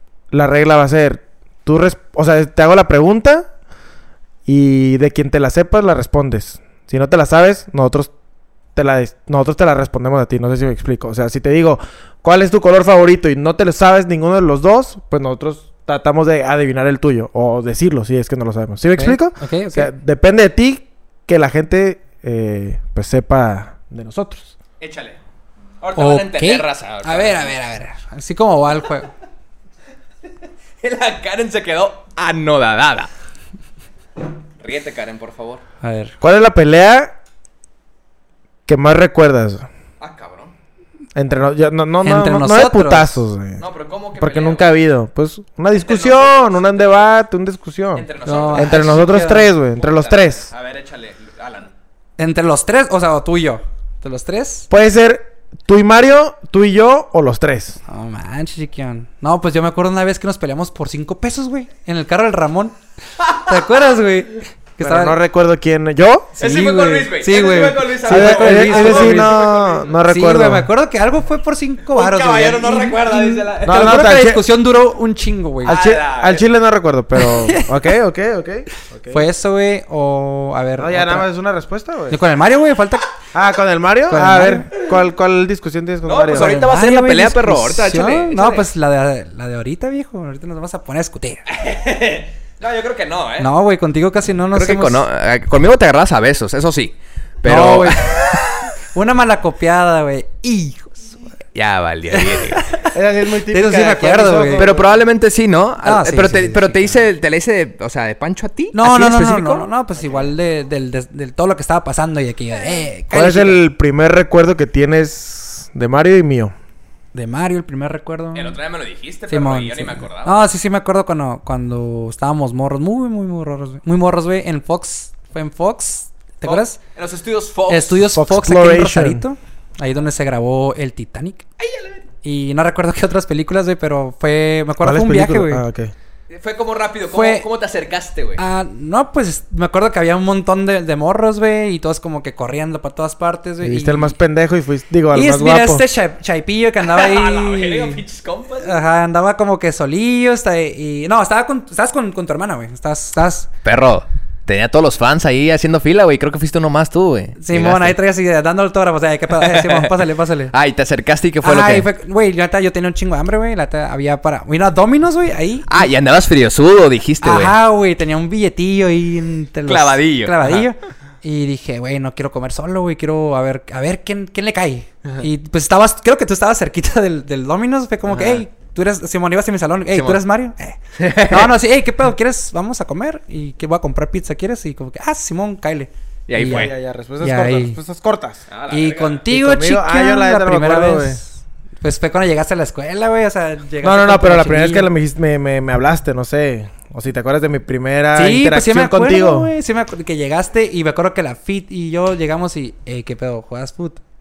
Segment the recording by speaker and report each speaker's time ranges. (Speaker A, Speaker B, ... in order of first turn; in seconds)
Speaker A: 0.3-3.5, 4.4-8.1, 8.8-24.5, 36.2-37.1, 38.7-39.7, 41.1-43.6, 44.2-50.5, 54.7-57.8, 64.8-66.4, 68.0-70.7, 73.7-74.4, 75.6-79.2, 80.8-82.2, 83.3-86.7, 102.9-104.9, 113.1-116.5, 128.1-129.2, 134.8-135.9, 143.6-145.8, 186.4-188.4, 189.3-191.2, 193.8-199.5
Speaker B: 18.9-19.9, 26.0-29.1, 35.8-36.1, 42.0-43.1, 48.2-49.5, 52.2-54.7, 57.9-65.2, 66.4-69.3, 70.1-75.7, 77.2-77.8, 79.1-81.3, 82.1-83.2, 84.1-84.8, 86.3-91.4, 93.4-95.0, 97.4-101.1, 102.1-102.9, 103.5-104.7, 105.8-106.9, 108.7-113.6, 117.1-118.6, 119.3-126.8, 127.7-131.4, 132.2-135.6, 137.1-137.4, 138.4-144.1, 145.1-148.0, 148.6-153.5, 157.4-160.5, 161.4-165.9, 167.2-187.8, 188.7-194.9, 198.1-204.0
Speaker C: 24.8-25.2, 25.8-27.5, 30.8-33.1, 34.6-35.6, 40.0-40.5, 43.6-44.7, 45.7-47.0, 47.9-48.9, 49.8-51.7, 66.4-70.0, 71.9-74.0, 75.6-76.5, 86.1-88.7, 91.5-93.5, 94.5-98.7, 101.5-102.7, 104.5-109.7, 118.3-120.4, 126.4-128.0, 131.6-132.1, 136.3-138.4, 146.8-148.8, 153.6-157.9, 159.4-160.0, 160.5-161.9, 165.7-167.6, 169.7-170.7, 178.1-178.4, 179.9-180.2, 180.9-181.5, 186.3-186.7, 188.5-189.2